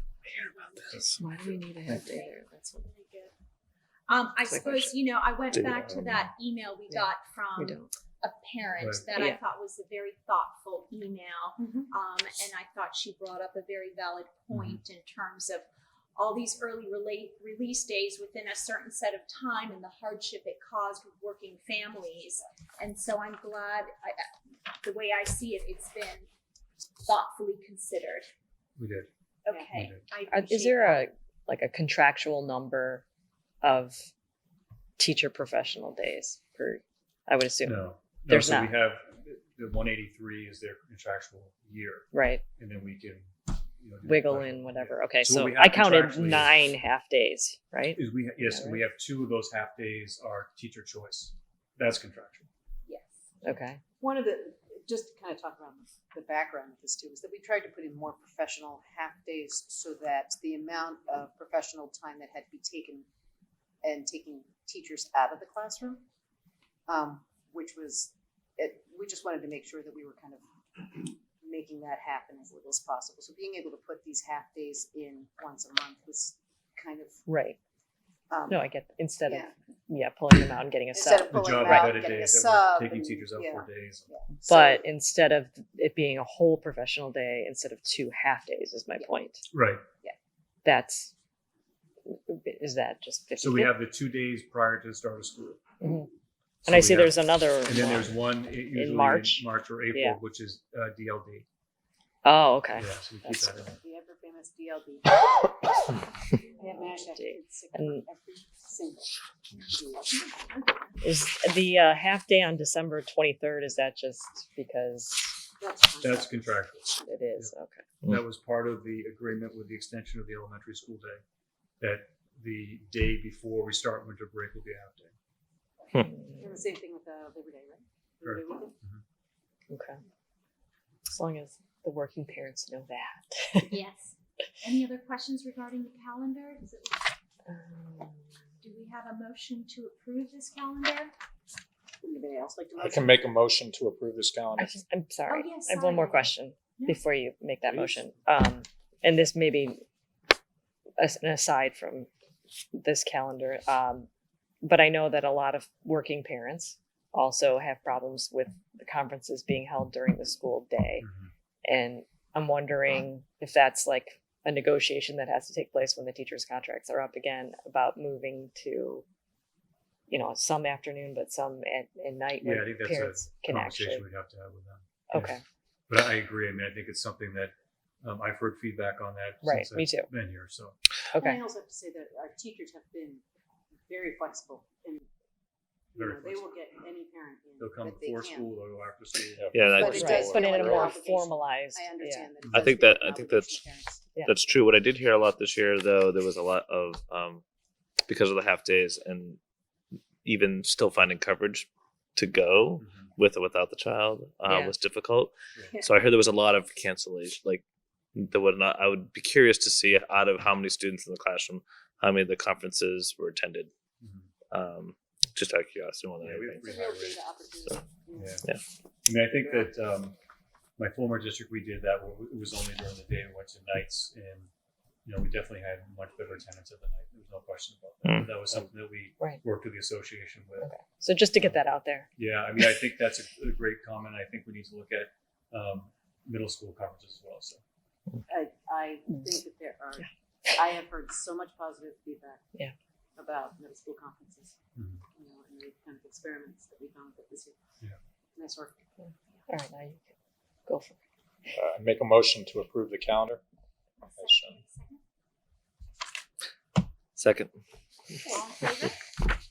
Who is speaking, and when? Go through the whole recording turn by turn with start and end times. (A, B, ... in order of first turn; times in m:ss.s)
0:00.4-0:01.0 A
0:01.1-0:02.8 B
0:01.9-0:03.3 A
0:04.1-0:24.3 A
0:04.5-0:04.9 B
0:05.6-0:06.2 C
0:06.9-0:07.9 B
0:08.8-0:09.1 D
0:14.5-0:14.8 D
0:24.8-0:26.3 A
0:27.0-0:28.3 A
0:28.8-0:29.1 D
0:29.4-0:31.1 A
0:29.7-0:30.1 D
0:30.3-0:33.0 B
0:33.6-0:34.1 B
0:35.0-0:38.8 B
0:37.6-0:46.6 D
0:42.1-0:42.4 B
0:44.0-0:48.8 B
0:47.9-0:52.5 D
0:53.4-0:53.8 B
0:54.0-1:03.0 E
1:03.8-1:06.0 E
1:06.9-1:17.2 E
1:17.3-1:17.6 B
1:18.3-1:18.6 E
1:18.5-1:22.0 B
1:19.2-1:19.5 E
1:20.9-1:24.8 E
1:21.3-1:24.1 D
1:24.4-1:29.4 B
1:29.5-1:29.8 D
1:30.6-1:31.1 B
1:32.0-1:33.8 B
1:33.4-1:35.6 D
1:35.8-1:36.1 B
1:36.6-1:40.2 B
1:36.6-1:41.4 D
1:42.2-1:43.6 B
1:42.7-1:43.8 D
1:43.8-1:46.0 E
1:46.6-1:50.2 E
1:46.7-1:48.0 B
1:50.1-1:50.9 A
1:51.0-1:55.4 B
1:55.6-1:56.5 E
1:56.0-1:57.5 D
1:57.0-1:57.8 B
1:58.0-2:01.2 D
2:01.8-2:05.1 D
2:06.0-2:06.4 B
2:06.4-2:08.7 E
2:08.2-2:09.0 D
2:09.7-2:10.0 B
2:11.1-2:13.8 B
2:14.6-2:17.0 A
2:17.5-2:18.4 B
2:18.6-2:21.1 A
2:22.0-2:23.4 E
2:22.8-2:24.7 F
2:24.6-2:29.8 B
2:25.3-2:27.0 A
2:31.0-2:32.1 B
2:32.7-2:34.1 B
2:34.6-2:41.1 B
2:41.0-2:41.3 D
2:41.6-2:49.0 B
2:50.1-2:54.0 B
2:52.4-3:00.8 D
2:55.1-2:55.4 B
2:59.4-3:00.1 B
3:01.1-3:01.4 B
3:01.2-3:03.2 E
3:03.9-3:05.1 E
3:05.9-3:06.5 D
3:05.9-3:08.5 E
3:07.6-3:10.3 D
3:09.4-3:10.9 F
3:09.5-3:10.4 C
3:09.6-3:14.0 E
3:10.0-3:12.3 B
3:12.5-3:13.6 C
3:14.2-3:17.4 C
3:18.0-3:19.4 C
3:20.2-3:27.6 C
3:22.8-3:23.1 D
3:24.5-3:24.7 B
3:28.2-3:33.7 C
3:34.0-3:34.3 D
3:34.5-3:36.6 C
3:36.2-3:37.2 D
3:36.6-3:38.4 E
3:38.1-3:38.4 D
3:39.0-3:40.2 D
3:40.8-3:44.5 D
3:45.0-3:50.7 D
3:50.6-3:52.1 B
3:52.2-3:57.6 D
3:58.3-4:02.4 E
4:03.2-4:04.5 E
4:04.7-4:05.0 D
4:05.1-4:07.6 E
4:08.4-4:08.8 E
4:09.0-4:10.1 B
4:10.7-4:11.0 B
4:11.5-4:13.4 F
4:14.0-4:15.0 A
4:14.1-4:14.6 F
4:17.2-4:17.5 C
4:18.2-4:19.0 A